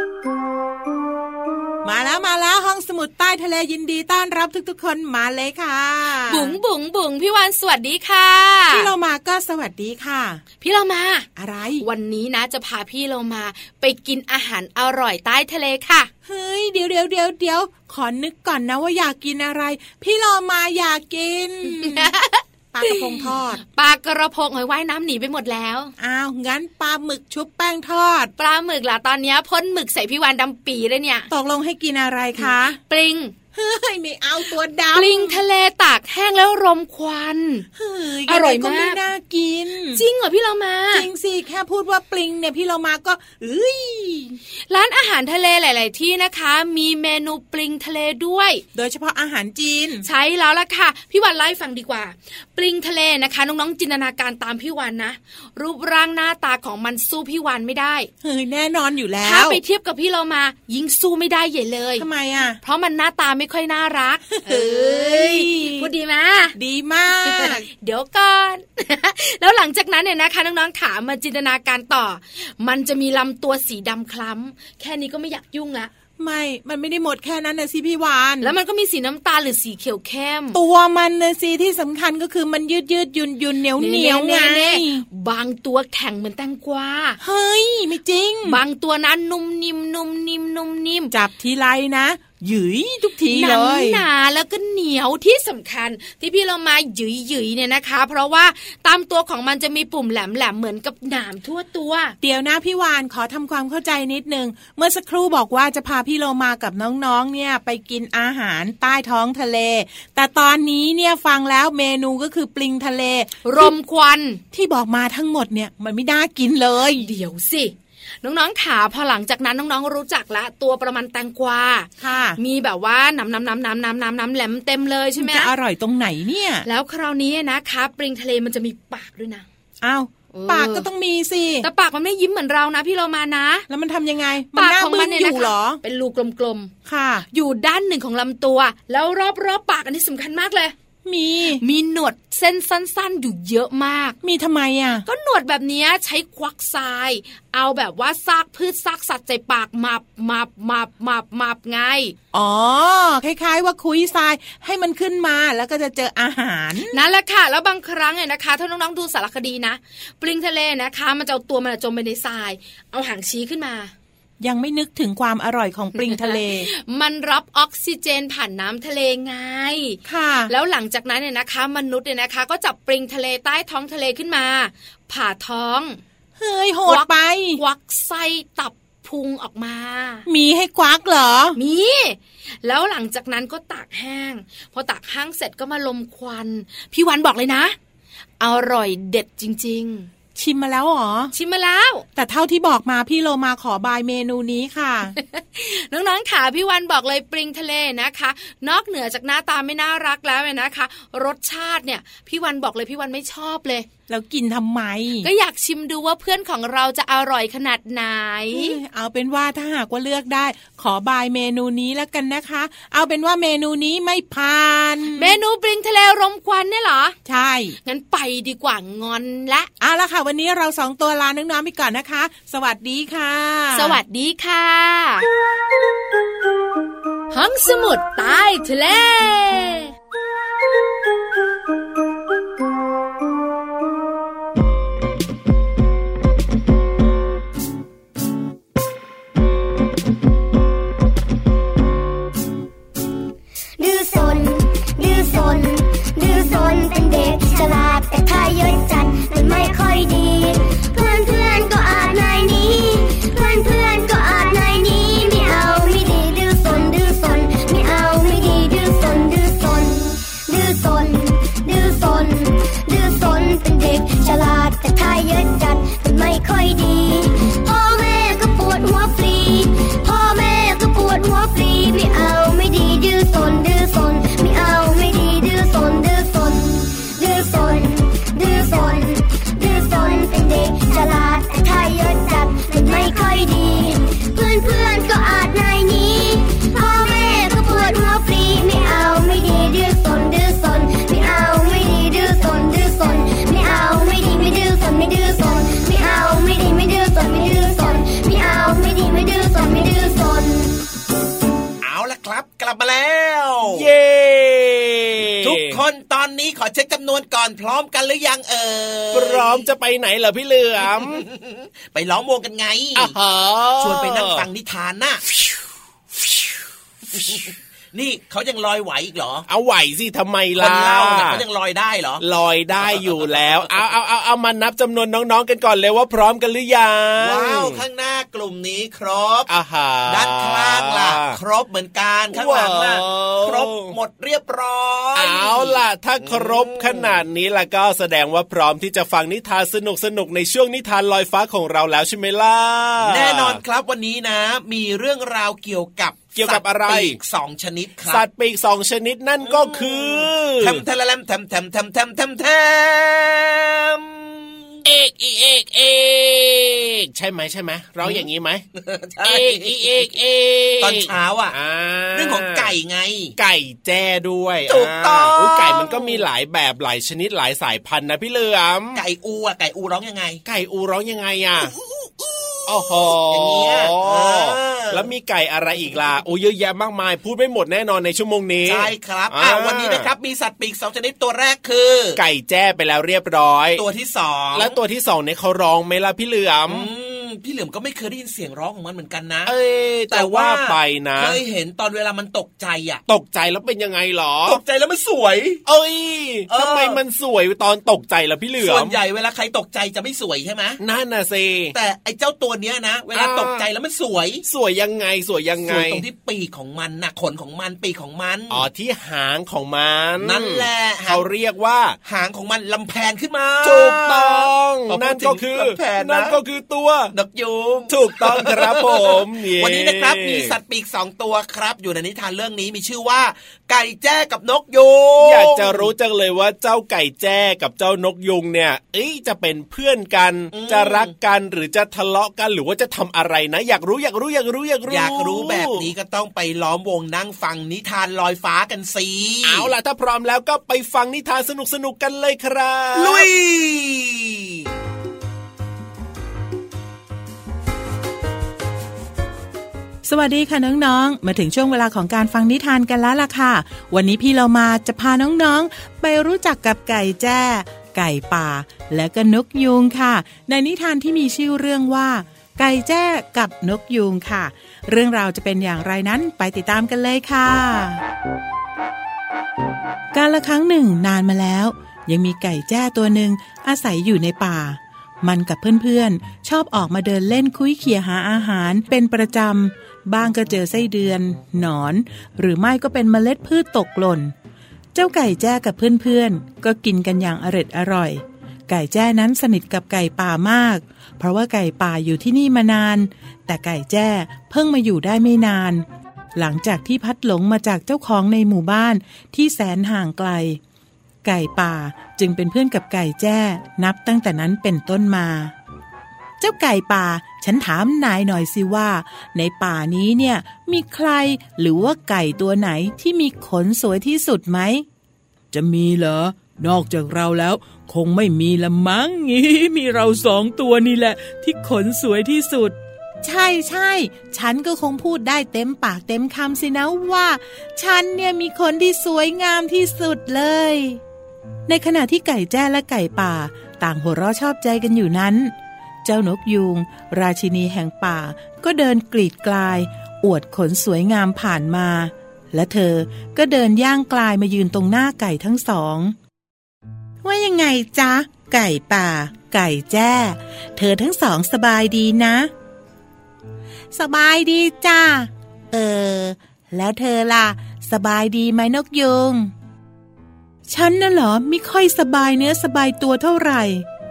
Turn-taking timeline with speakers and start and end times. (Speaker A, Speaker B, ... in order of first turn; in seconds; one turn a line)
Speaker A: 1.8-6.5
Speaker B: 6.3-8.9
Speaker A: 8.7-10.4
Speaker B: 10.6-11.3
Speaker A: 11.3-11.8
Speaker B: 11.8-16.1
Speaker A: 16.2-22.1
Speaker B: 21.7-25.9
Speaker A: 22.7-23.6
Speaker A: 26.0-28.3
Speaker B: 28.4-31.3
Speaker A: 31.3-32.8
Speaker B: 32.4-33.3
Speaker A: 33.5-35.4
Speaker B: 34.9-37.6
Speaker A: 37.7-40.0
Speaker B: 38.2-39.0
Speaker B: 39.9-41.1
Speaker A: 40.9-44.4
Speaker B: 44.7-48.6
Speaker A: 48.7-50.0
Speaker B: 50.0-58.1
Speaker A: 58.2-59.6
Speaker B: 59.2-62.1
Speaker A: 62.0-62.6
Speaker B: 62.6-66.5
Speaker A: 64.3-65.9
Speaker A: 66.5-67.6
Speaker B: 67.2-75.9
Speaker A: 76.2-78.5
Speaker B: 78.4-80.6
Speaker A: 80.5-85.0
Speaker B: 83.8-87.2
Speaker A: 87.2-88.6
Speaker B: 88.4-91.1
Speaker A: 91.1-94.0
Speaker B: 93.3-102.2
Speaker A: 102.2-113.7
Speaker B: 113.4-114.4
Speaker A: 114.5-117.1
Speaker B: 116.9-125.5
Speaker A: 122.0-122.4
Speaker A: 125.2-126.7
Speaker B: 126.6-129.4
Speaker A: 129.8-131.7
Speaker B: 130.3-130.9
Speaker B: 131.6-133.7
Speaker A: 133.7-135.8
Speaker B: 134.5-136.7
Speaker A: 136.8-137.2
Speaker B: 137.3-140.7
Speaker A: 141.0-141.6
Speaker B: 141.5-144.2
Speaker A: 144.2-145.0
Speaker B: 145.1-152.1
Speaker A: 152.3-157.0
Speaker B: 156.9-163.9
Speaker A: 164.4-166.7
Speaker B: 166.0-176.0
Speaker A: 170.0-170.5
Speaker A: 176.4-177.6
Speaker B: 176.9-180.2
Speaker A: 180.3-181.6
Speaker B: 181.6-187.7
Speaker B: 188.4-190.1
Speaker A: 190.3-191.3
Speaker B: 191.3-192.0
Speaker A: 192.2-195.1
Speaker B: 195.2-203.9
Speaker A: 204.1-205.3
Speaker B: 205.2-208.8
Speaker A: 208.5-215.4
Speaker B: 215.2-217.1
Speaker A: 217.2-217.8
Speaker B: 217.8-219.7
Speaker A: 219.8-224.0
Speaker B: 223.7-225.3
Speaker B: 227.3-229.9
Speaker C: 243.8-300.8
Speaker D: 301.8-303.9
Speaker E: 303.6-305.8
Speaker D: 305.4-309.6
Speaker E: 309.1-311.2
Speaker D: 311.0-313.1
Speaker E: 312.9-314.5
Speaker D: 313.8-315.2
Speaker D: 317.1-319.4
Speaker E: 319.5-321.4
Speaker D: 320.6-322.2
Speaker E: 322.2-327.8
Speaker D: 322.9-323.6
Speaker D: 327.2-329.5
Speaker E: 329.5-331.4
Speaker D: 330.1-337.2
Speaker E: 332.3-333.9
Speaker E: 335.1-343.6
Speaker D: 343.0-348.2
Speaker E: 346.4-347.2
Speaker E: 348.1-350.8
Speaker D: 349.4-354.8
Speaker E: 354.8-358.6
Speaker D: 358.0-359.8
Speaker E: 359.2-362.7
Speaker D: 360.8-361.6
Speaker D: 362.1-363.3
Speaker E: 363.4-369.0
Speaker D: 364.7-366.2
Speaker D: 368.9-370.4
Speaker E: 370.4-371.7
Speaker D: 371.6-375.1
Speaker E: 372.6-380.1
Speaker D: 378.6-382.2
Speaker E: 382.1-383.8
Speaker D: 383.8-384.7
Speaker E: 384.5-386.9
Speaker D: 386.7-389.5
Speaker E: 389.4-391.4
Speaker D: 390.1-393.0
Speaker E: 393.1-394.6
Speaker D: 394.4-395.6
Speaker E: 395.6-398.9
Speaker D: 396.5-397.0
Speaker D: 398.6-400.8
Speaker E: 400.8-401.7
Speaker D: 401.7-404.4
Speaker E: 403.1-403.6
Speaker E: 404.4-406.0
Speaker D: 405.6-408.6
Speaker E: 408.5-411.9
Speaker D: 410.2-411.2
Speaker D: 412.0-416.4
Speaker E: 413.6-417.1
Speaker D: 417.1-425.9
Speaker E: 417.9-420.5
Speaker E: 425.2-435.8
Speaker D: 430.5-431.1
Speaker D: 434.9-439.7
Speaker E: 439.4-443.3
Speaker D: 442.9-444.6
Speaker A: 450.0-468.0
Speaker A: 470.1-484.3
Speaker A: 484.9-500.6
Speaker A: 501.2-505.5
Speaker A: 506.4-514.8
Speaker A: 515.5-531.0
Speaker A: 531.7-535.5
Speaker A: 536.0-546.1
Speaker A: 547.2-552.5
Speaker A: 553.9-559.5
Speaker A: 560.7-563.9